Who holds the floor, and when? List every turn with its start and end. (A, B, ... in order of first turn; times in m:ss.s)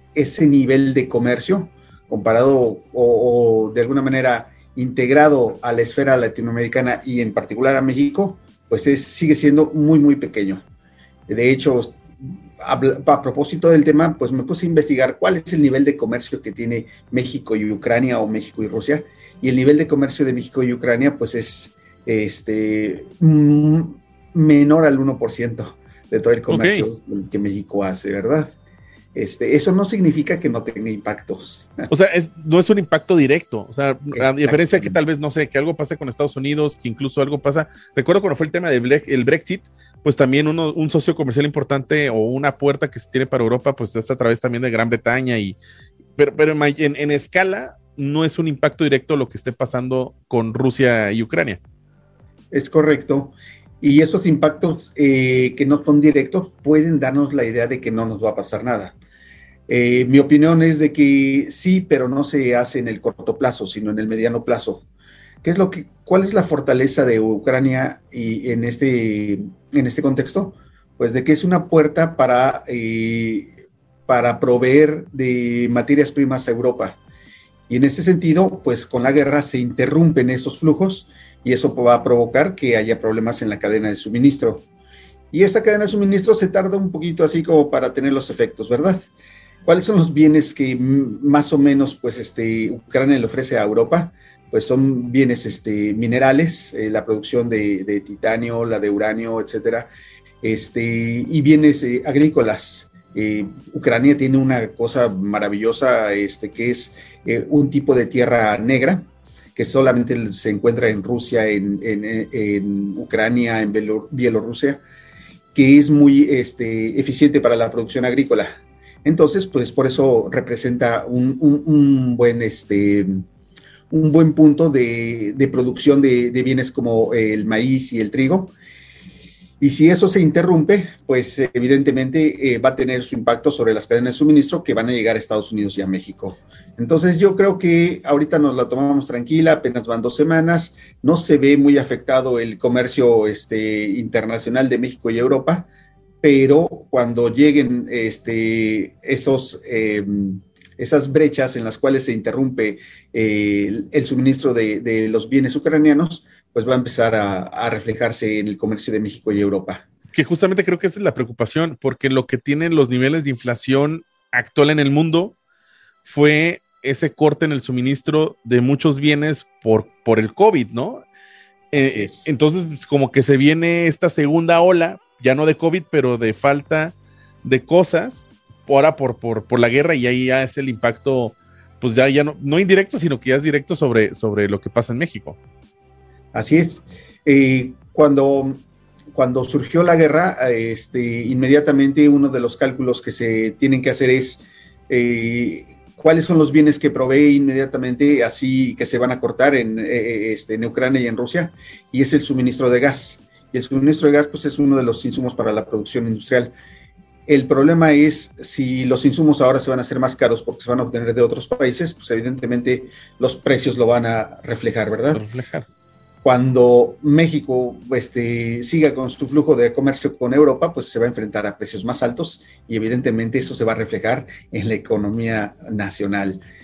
0:00.1-0:10.6 A
0:11.3-0:28.5 A
0:26.5-0:26.8 B
0:29.1-0:31.8 A
0:31.9-0:45.6 B
0:34.2-0:35.0 A
0:46.2-0:51.6 B
0:52.5-0:58.9 A
0:59.7-1:04.8 A
1:05.4-1:17.0 A
1:17.7-1:24.6 A
1:25.3-1:29.1 A
1:29.6-1:39.9 A
1:40.4-1:49.0 A
1:49.5-1:54.8 A
1:55.5-2:03.2 A
2:03.9-2:08.5 A
2:09.6-2:25.7 A
2:26.2-2:39.8 A
2:40.1-2:45.4 B
2:46.0-2:51.0 B
2:51.7-3:05.4 B
2:51.8-2:52.3 A
3:06.3-3:08.6 A
3:09.1-3:26.5 A
3:27.3-3:35.2 A
3:35.1-3:35.7 B
3:36.2-3:46.4 A